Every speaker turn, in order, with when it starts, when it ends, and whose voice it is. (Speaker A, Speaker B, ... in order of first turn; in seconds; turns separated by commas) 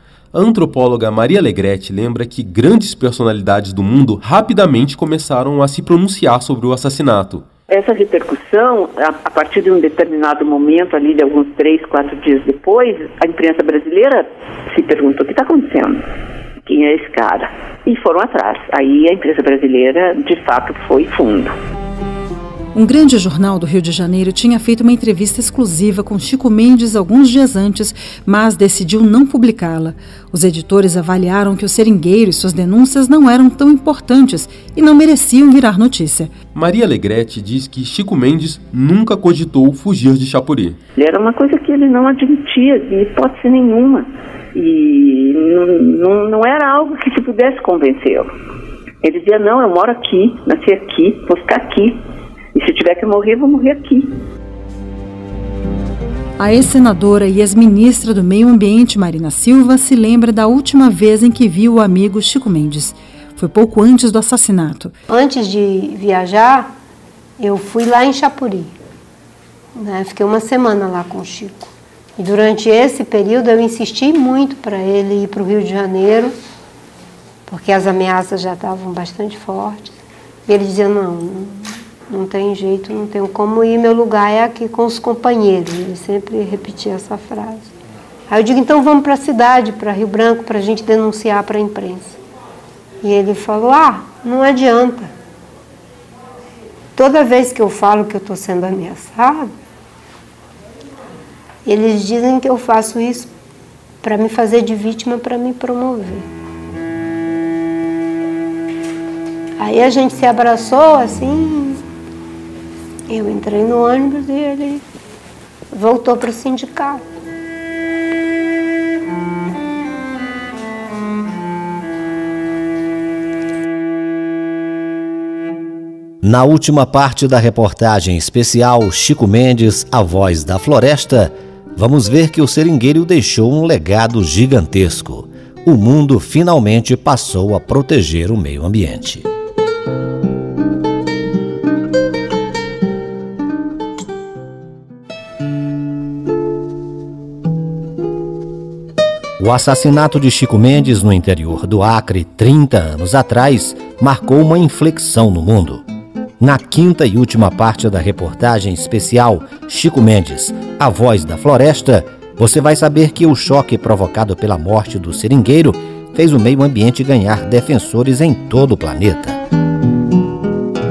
Speaker A: 0.3-7.4, Speaker B: 7.7-16.0, Speaker B: 16.6-21.5, Speaker C: 22.7-36.3, Speaker A: 36.5-40.8, Speaker B: 41.0-48.3, Speaker B: 49.0-52.0, Speaker B: 52.5-54.1, Speaker C: 56.4-64.9, Speaker D: 65.1-66.7, Speaker D: 67.4-68.7, Speaker D: 69.8-76.3, Speaker D: 77.5-87.7, Speaker D: 88.3-92.2, Speaker D: 93.0-95.1, Speaker D: 97.0-99.5, Speaker D: 101.6-103.3, Speaker D: 104.0-106.2, Speaker D: 109.6-111.8, Speaker D: 113.1-114.8, Speaker D: 115.7-117.0, Speaker E: 126.2-139.3, Speaker E: 149.4-155.8, Speaker E: 156.4-169.4